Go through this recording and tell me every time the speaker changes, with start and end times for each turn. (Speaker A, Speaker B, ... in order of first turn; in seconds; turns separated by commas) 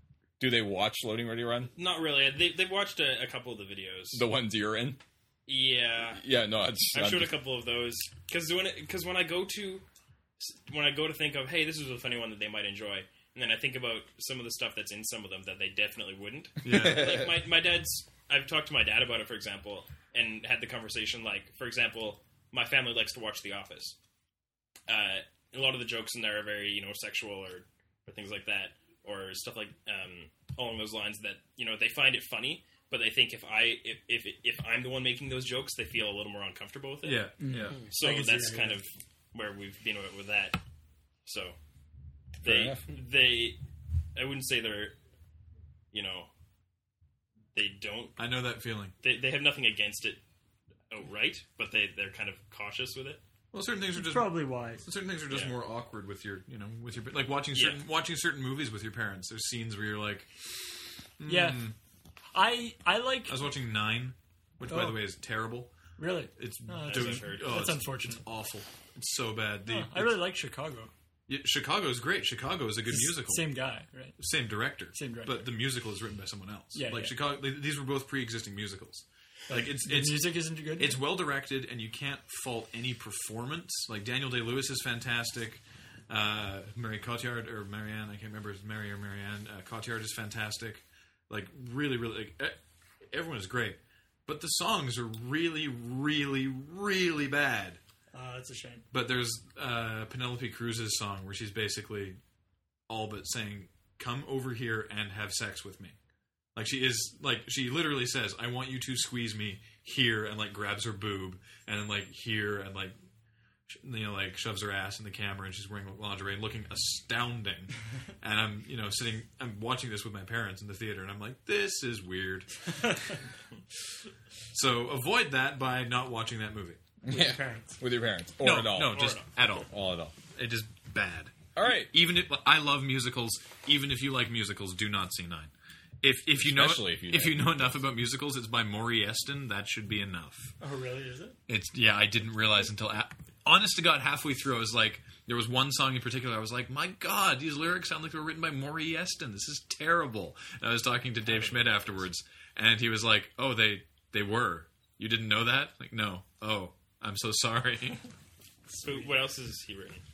Speaker A: 0.4-1.7, Speaker B: 1.8-4.3, Speaker A: 4.1-5.0, Speaker B: 5.5-6.2, Speaker A: 6.1-7.4, Speaker B: 6.9-9.8, Speaker B: 10.4-24.0, Speaker C: 16.6-17.1, Speaker A: 16.7-17.3, Speaker B: 24.9-37.3, Speaker C: 37.0-37.8, Speaker D: 37.4-38.8, Speaker B: 37.9-40.6, Speaker B: 41.3-41.6, Speaker B: 42.4-43.6, Speaker A: 42.4-42.8, Speaker B: 44.1-45.0, Speaker B: 45.9-46.3, Speaker B: 47.5-48.2, Speaker C: 48.2-49.0, Speaker B: 49.0-50.2, Speaker B: 50.9-53.2, Speaker C: 53.5-60.5, Speaker D: 53.9-54.9, Speaker B: 55.3-55.5, Speaker B: 57.5-57.8, Speaker C: 61.2-61.8, Speaker D: 61.3-61.7, Speaker D: 62.3-63.4, Speaker C: 63.3-65.7, Speaker D: 64.7-65.0, Speaker D: 66.0-68.3, Speaker C: 66.3-70.2, Speaker B: 66.9-67.6, Speaker D: 69.7-70.9, Speaker C: 71.3-73.5, Speaker D: 72.9-74.2, Speaker C: 74.2-92.6, Speaker D: 74.9-75.5, Speaker D: 76.7-77.2, Speaker D: 79.5-81.1, Speaker C: 93.1-97.8, Speaker D: 98.1-98.9, Speaker C: 98.9-102.2, Speaker C: 102.9-106.0, Speaker C: 106.6-113.0, Speaker C: 113.7-123.0, Speaker C: 124.5-126.8, Speaker A: 127.0-130.2, Speaker D: 127.1-127.8, Speaker C: 128.4-129.7, Speaker B: 128.9-129.3, Speaker C: 130.3-135.5, Speaker A: 131.6-131.9, Speaker C: 136.0-140.5, Speaker A: 136.4-137.7, Speaker D: 140.6-141.4, Speaker C: 141.5-158.0, Speaker D: 151.4-151.8, Speaker D: 158.7-159.2, Speaker B: 158.8-160.0